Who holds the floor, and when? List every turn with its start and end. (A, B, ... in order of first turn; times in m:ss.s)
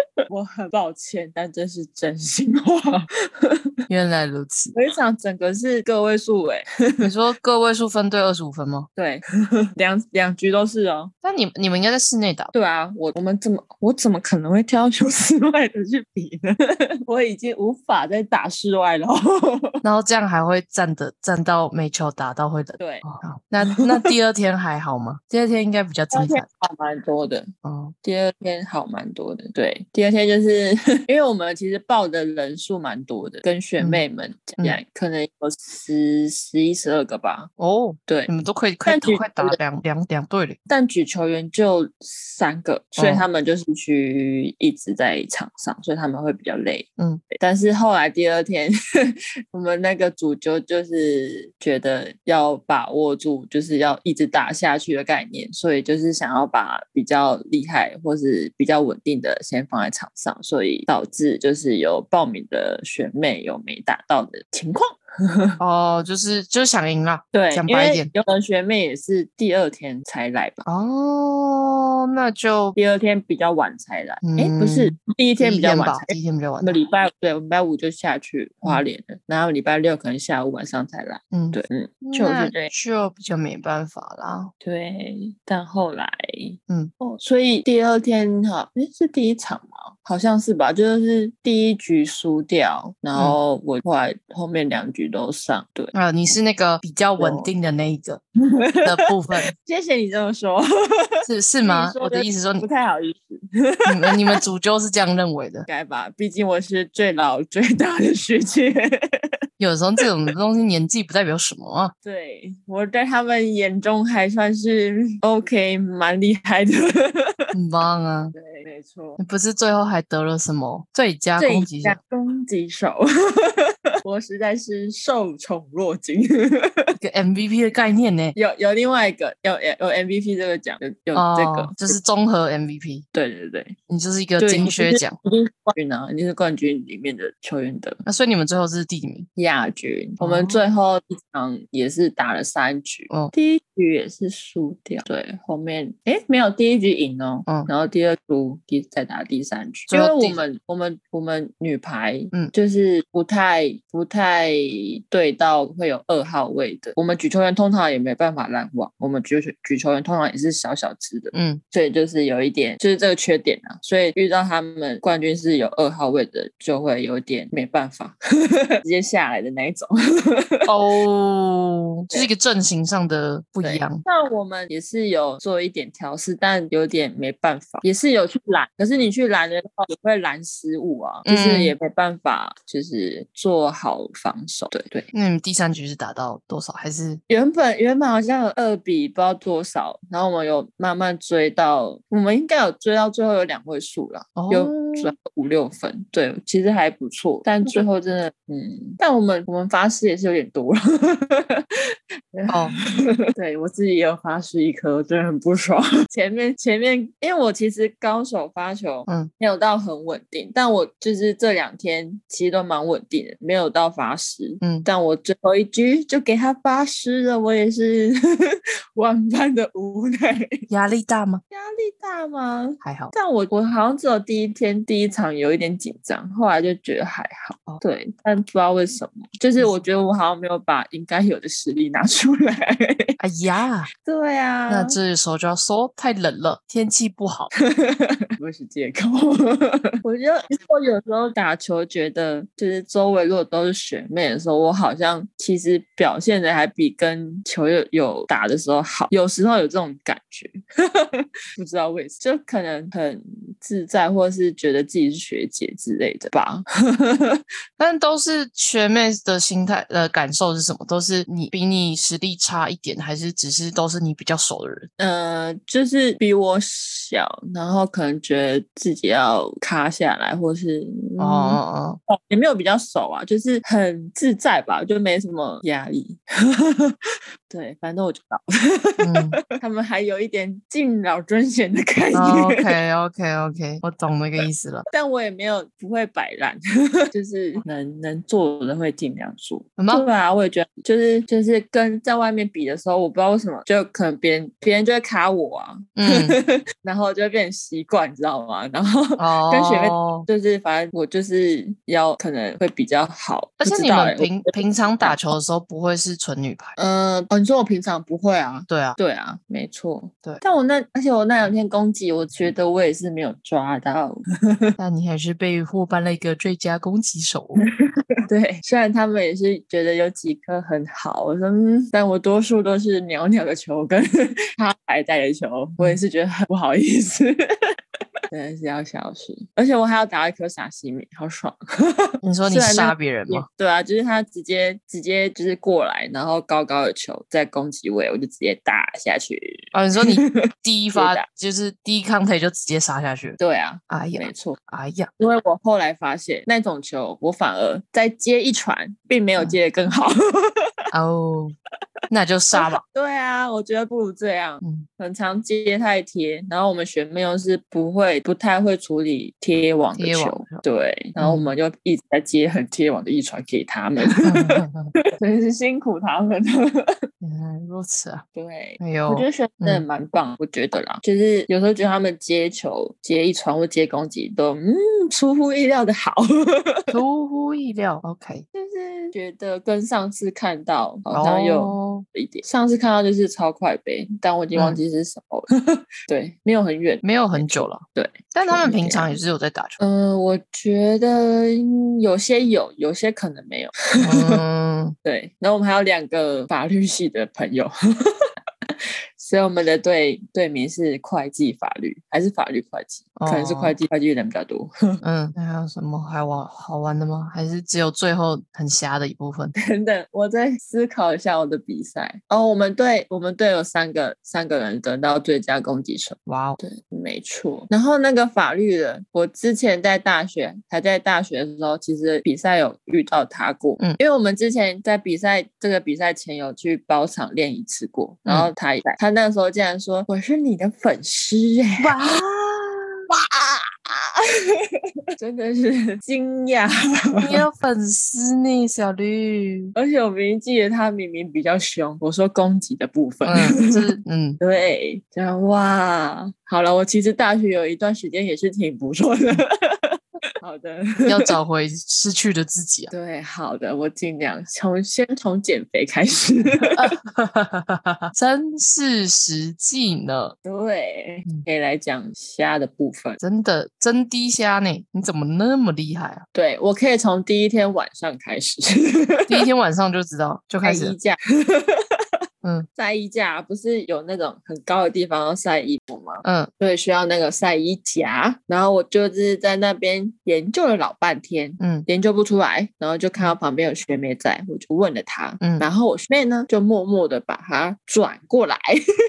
0:00.3-0:03.7 A
0:03.9-0:04.7 B
0:04.7-0:07.1 A
0:07.0-0:08.9 B
0:09.0-0:11.1 A
0:11.2-0:12.5 B
0:12.5-0:19.8 A
0:19.8-0:26.4 B
0:22.8-0:23.0 A
0:23.8-0:24.1 A
0:26.1-0:27.5 A
0:27.6-0:27.9 B
0:28.0-0:37.5 A
0:37.6-0:40.6 B
0:38.8-0:39.6 A
0:40.7-1:05.6 A
0:43.0-0:43.2 B
1:05.6-1:08.1 B
1:07.3-1:10.6 A
1:10.6-1:12.8 B
1:12.8-1:22.7 A
1:14.2-1:16.7 B
1:21.3-1:24.5 B
1:24.6-1:35.9 A
1:35.9-1:38.2 B
1:37.2-1:37.5 A
1:38.5-1:44.2 A
1:38.8-1:39.5 B
1:41.2-1:42.6 B
1:43.8-1:45.7 B
1:45.7-1:49.3 A
1:49.6-1:51.9 B
1:52.0-1:57.5 A
1:57.5-1:58.3 B
1:58.3-1:59.2 A
1:59.2-2:02.0 B
2:01.4-2:06.9 A
2:07.0-2:08.4 B
2:08.4-2:11.9 A
2:11.1-2:13.0 B
2:13.1-2:13.8 A
2:13.9-2:15.2 B
2:14.4-2:18.0 A
2:18.0-2:19.3 B
2:19.4-2:50.7 A
2:20.2-2:20.6 B
2:29.9-2:30.4 B
2:41.3-2:41.6 B
2:50.7-2:54.0 B
2:53.6-3:05.1 A
3:01.2-3:01.8 B
3:05.1-3:07.2 B
3:07.3-3:21.6 A
3:14.4-3:15.1 B
3:22.3-3:40.6 A
3:22.5-3:22.8 B
3:34.6-3:34.9 B
3:40.7-3:41.4 B
3:41.5-3:53.2 A
3:42.8-3:43.1 B
3:53.2-3:53.9 B
3:53.9-3:55.0 A
3:54.7-3:57.5 B
3:57.6-4:17.4 A
4:17.8-4:24.9 B
4:25.0-4:37.0 A
4:31.2-4:32.0 B
4:37.5-4:42.7 A
4:39.0-4:39.4 B
4:42.1-4:44.8 B
4:44.9-5:05.3 A
4:49.8-4:50.0 B
4:56.0-4:56.4 B
4:59.2-5:00.3 B
5:03.6-5:06.7 B
5:06.8-5:14.8 A
5:08.7-5:09.0 B
5:14.8-5:17.7 B
5:18.2-5:27.4 A
5:28.3-5:41.2 A
5:32.2-5:33.4 B
5:39.7-5:43.4 B
5:43.4-5:44.6 A
5:43.9-5:45.1 B
5:45.2-5:50.7 A
5:50.9-5:51.5 B
5:52.1-5:52.8 B
5:52.6-6:04.6 A
6:00.0-6:00.6 B
6:01.2-6:01.5 B
6:04.2-6:04.9 B
6:05.1-6:07.0 A
6:07.2-6:08.2 B
6:08.3-6:16.9 A
6:08.8-6:09.8 B
6:16.9-6:18.4 B
6:18.5-6:25.5 A
6:21.1-6:22.0 B
6:24.5-6:24.8 B
6:26.0-6:29.2 A
6:27.0-6:29.8 B
6:29.8-6:34.4 A
6:34.0-6:35.0 B
6:35.0-6:37.7 A
6:39.2-6:45.0 A
6:43.2-6:43.8 B
6:45.0-6:49.5 B
6:49.6-7:11.9 A
6:56.3-6:56.6 B
7:08.2-7:08.5 B
7:11.8-7:13.0 B
7:13.1-7:17.4 A
7:17.2-7:19.7 B
7:19.8-7:23.8 A
7:23.2-7:24.4 B
7:24.4-7:31.3 A
7:31.0-7:32.9 B
7:32.9-7:36.8 A
7:36.7-7:40.4 B
7:40.4-7:43.2 A
7:43.2-7:46.2 B
7:46.3-7:49.4 A
7:49.3-7:50.9 B
7:50.6-7:52.0 A
7:52.4-7:52.7 B
7:52.8-8:08.8 A
7:56.2-7:56.5 B
8:01.6-8:01.9 B
8:05.4-8:05.7 B